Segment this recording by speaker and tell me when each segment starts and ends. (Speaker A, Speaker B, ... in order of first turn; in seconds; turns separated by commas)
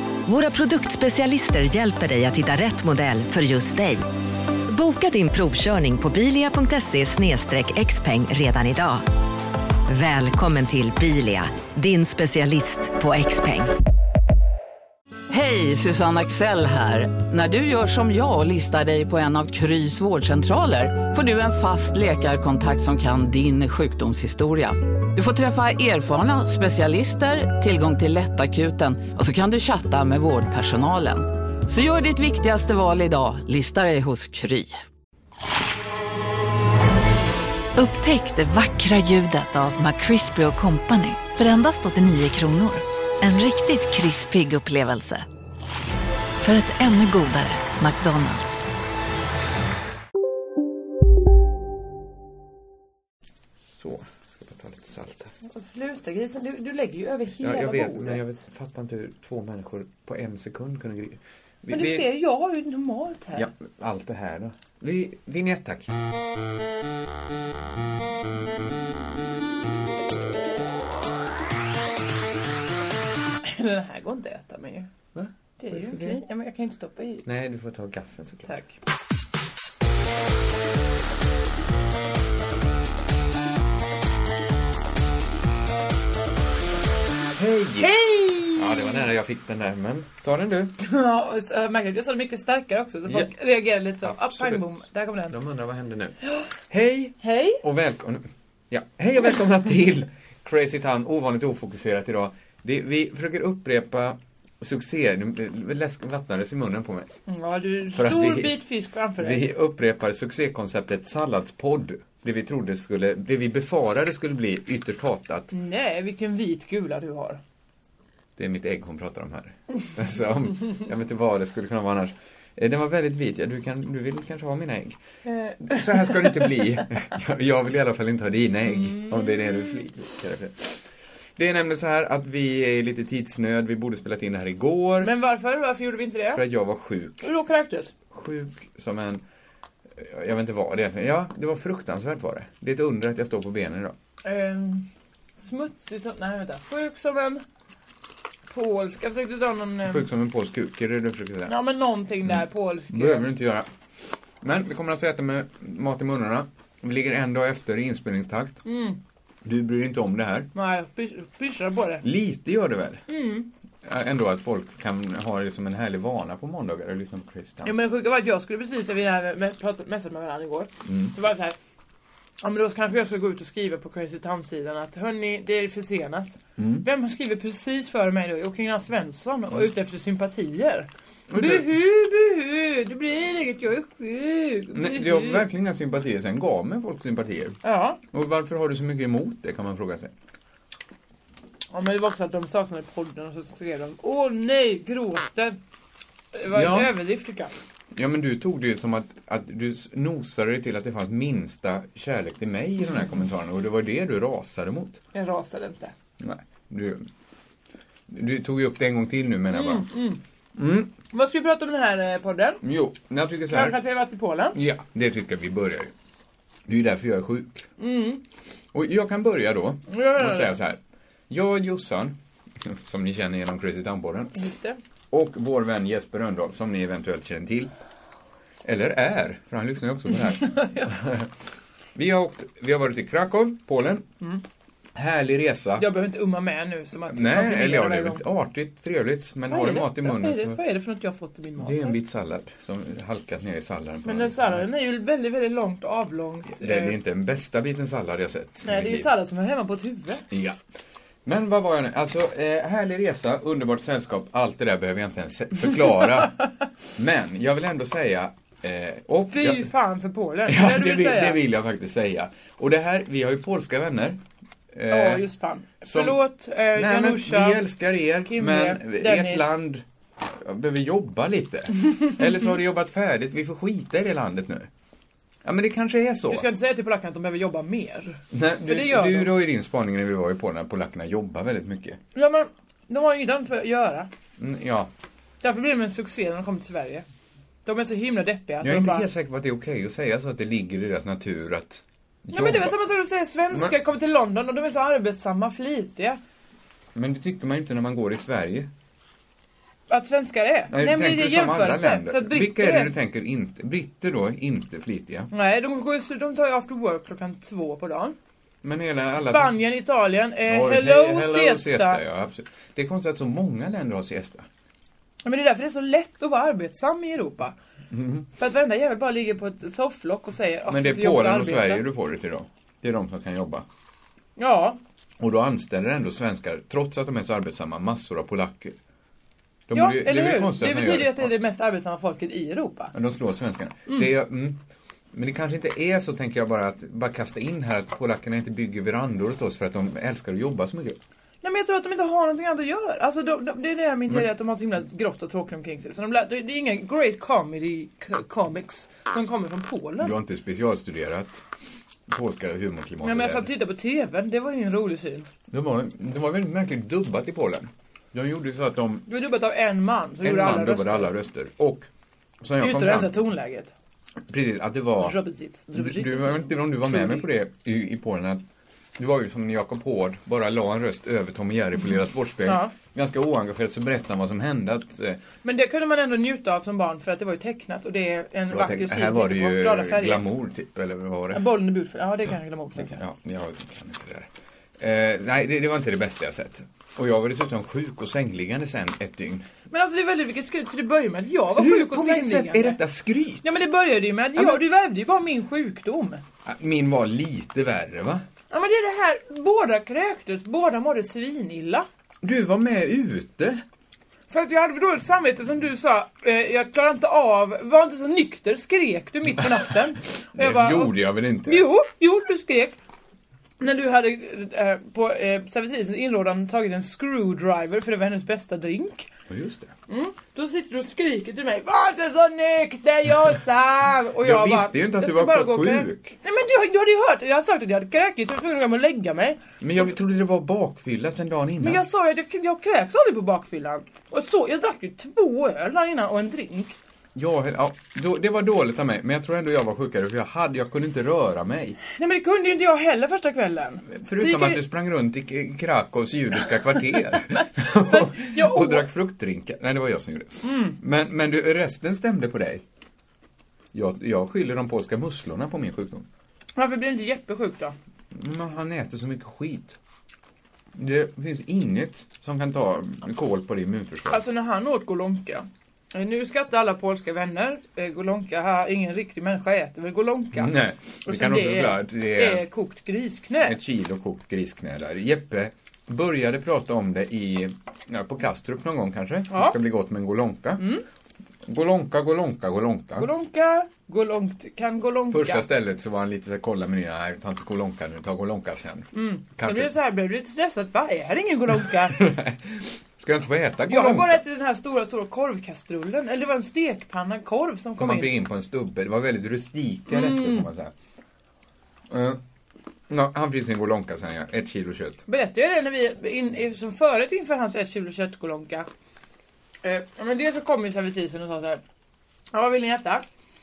Speaker A: 0.3-4.1, Speaker A: 4.7-9.1, Speaker A: 9.9-13.7, Speaker B: 15.3-34.8, Speaker C: 37.8-45.3, Speaker C: 46.4-48.6, Speaker D: 53.7-55.3, Speaker E: 55.5-58.2, Speaker D: 57.4-62.1, Speaker E: 61.7-63.5, Speaker D: 63.4-65.9, Speaker E: 73.4-74.9, Speaker D: 75.1-76.2, Speaker E: 75.6-77.3, Speaker D: 77.2-78.5, Speaker E: 78.5-78.8, Speaker D: 87.4-90.8, Speaker E: 87.8-89.1, Speaker E: 90.8-95.3, Speaker D: 93.1-93.3, Speaker D: 94.0-96.2, Speaker E: 96.2-96.5, Speaker D: 96.7-107.1, Speaker E: 97.2-97.6, Speaker E: 107.3-109.4, Speaker D: 107.9-108.6, Speaker D: 109.2-115.5, Speaker E: 115.5-117.4, Speaker D: 118.4-125.0, Speaker E: 125.2-126.6, Speaker D: 125.6-130.8, Speaker E: 128.8-129.8, Speaker D: 131.4-135.1, Speaker E: 135.0-136.4, Speaker D: 136.3-137.3, Speaker E: 137.2-137.9, Speaker D: 138.1-139.2, Speaker D: 140.0-144.0, Speaker E: 144.2-144.9, Speaker E: 145.4-147.4, Speaker E: 148.5-150.1, Speaker D: 149.8-151.6, Speaker E: 151.5-153.3, Speaker D: 152.3-153.7, Speaker D: 154.4-158.6, Speaker E: 158.7-159.0, Speaker D: 159.4-160.5, Speaker E: 160.6-162.0, Speaker D: 162.0-163.0, Speaker E: 163.1-163.5, Speaker D: 163.8-167.8, Speaker E: 167.6-171.6, Speaker D: 170.8-171.1, Speaker E: 172.4-185.5, Speaker D: 176.6-176.9, Speaker D: 181.3-181.7, Speaker D: 184.7-187.6, Speaker E: 187.6-188.0, Speaker D: 188.1-190.1, Speaker E: 191.7-195.6, Speaker E: 196.3-197.5, Speaker D: 196.5-196.9, Speaker D: 197.9-205.0, Speaker E: 205.1-205.9, Speaker D: 206.2-207.1, Speaker D: 208.1-209.9, Speaker E: 209.5-210.2, Speaker D: 210.6-210.9, Speaker E: 211.1-212.6, Speaker D: 212.6-213.8, Speaker E: 213.5-214.6, Speaker D: 214.5-215.9, Speaker D: 216.7-217.7, Speaker E: 217.8-218.2, Speaker D: 218.7-220.8, Speaker E: 219.9-220.6, Speaker D: 221.3-224.4, Speaker E: 224.4-224.8, Speaker D: 225.1-227.7, Speaker D: 228.6-231.3, Speaker E: 230.2-231.0, Speaker D: 231.9-234.1, Speaker D: 234.9-235.9, Speaker E: 235.8-238.3, Speaker D: 237.1-240.6, Speaker E: 239.5-242.0, Speaker D: 241.6-244.7, Speaker E: 244.0-247.0, Speaker D: 246.5-249.1, Speaker E: 248.7-250.3, Speaker D: 250.3-250.6, Speaker D: 251.2-256.4, Speaker D: 257.0-259.7, Speaker E: 259.3-261.4, Speaker D: 260.5-264.2, Speaker D: 264.7-265.3, Speaker E: 264.9-267.6, Speaker D: 265.8-274.7, Speaker E: 268.2-269.5, Speaker D: 275.4-276.5, Speaker E: 276.3-279.3, Speaker D: 278.3-282.0, Speaker E: 282.1-284.1, Speaker D: 284.4-284.9, Speaker E: 285.4-287.1, Speaker E: 287.6-289.1, Speaker D: 288.6-292.8, Speaker E: 292.3-296.2, Speaker D: 296.9-298.7, Speaker E: 299.9-302.9, Speaker D: 300.7-305.3, Speaker E: 305.3-308.2, Speaker D: 308.6-309.6, Speaker E: 309.2-312.0, Speaker D: 310.5-314.5, Speaker E: 315.2-317.6, Speaker D: 317.9-318.3, Speaker E: 318.3-321.9, Speaker D: 320.7-323.7, Speaker E: 324.4-324.8, Speaker D: 325.2-328.8, Speaker D: 329.7-331.3, Speaker E: 329.7-332.9, Speaker D: 332.9-334.6, Speaker D: 335.1-341.0, Speaker E: 341.4-350.1, Speaker D: 350.0-351.4, Speaker D: 352.1-353.5, Speaker E: 353.0-355.3, Speaker D: 355.5-359.1, Speaker E: 359.1-361.1, Speaker D: 360.2-361.9, Speaker D: 362.4-363.2, Speaker E: 362.6-363.7, Speaker D: 364.3-365.2, Speaker E: 365.0-367.3, Speaker D: 365.7-368.4, Speaker D: 369.0-375.2, Speaker E: 372.4-372.7, Speaker E: 375.4-380.2, Speaker D: 378.5-381.5, Speaker E: 381.3-383.0, Speaker D: 382.8-389.5, Speaker E: 389.7-392.8, Speaker D: 391.6-393.6, Speaker E: 393.4-396.2, Speaker D: 394.4-394.6, Speaker D: 396.4-398.2, Speaker E: 398.5-401.9, Speaker D: 402.2-403.6, Speaker E: 404.3-412.8, Speaker D: 410.4-411.7, Speaker E: 413.6-419.1, Speaker D: 419.3-419.8, Speaker E: 419.9-429.4, Speaker D: 424.2-426.2, Speaker D: 429.6-431.8, Speaker E: 431.6-436.8, Speaker D: 437.1-441.8, Speaker E: 442.0-444.6, Speaker D: 443.9-452.6, Speaker E: 447.3-448.9, Speaker E: 450.4-450.8, Speaker D: 453.7-456.1, Speaker E: 456.6-457.8, Speaker D: 458.1-459.8, Speaker D: 460.7-464.2, Speaker E: 464.1-470.5, Speaker D: 470.3-472.5, Speaker E: 471.1-473.6, Speaker D: 473.4-480.7, Speaker E: 479.3-479.6, Speaker E: 480.6-480.9, Speaker D: 481.4-483.1, Speaker E: 483.0-485.4, Speaker D: 485.1-489.7, Speaker E: 488.9-492.1, Speaker D: 491.6-494.2, Speaker E: 493.7-498.2, Speaker D: 497.8-500.7, Speaker E: 499.9-500.5, Speaker D: 501.9-502.2, Speaker D: 502.9-505.1, Speaker E: 505.1-508.7, Speaker E: 509.6-511.6, Speaker E: 512.3-513.1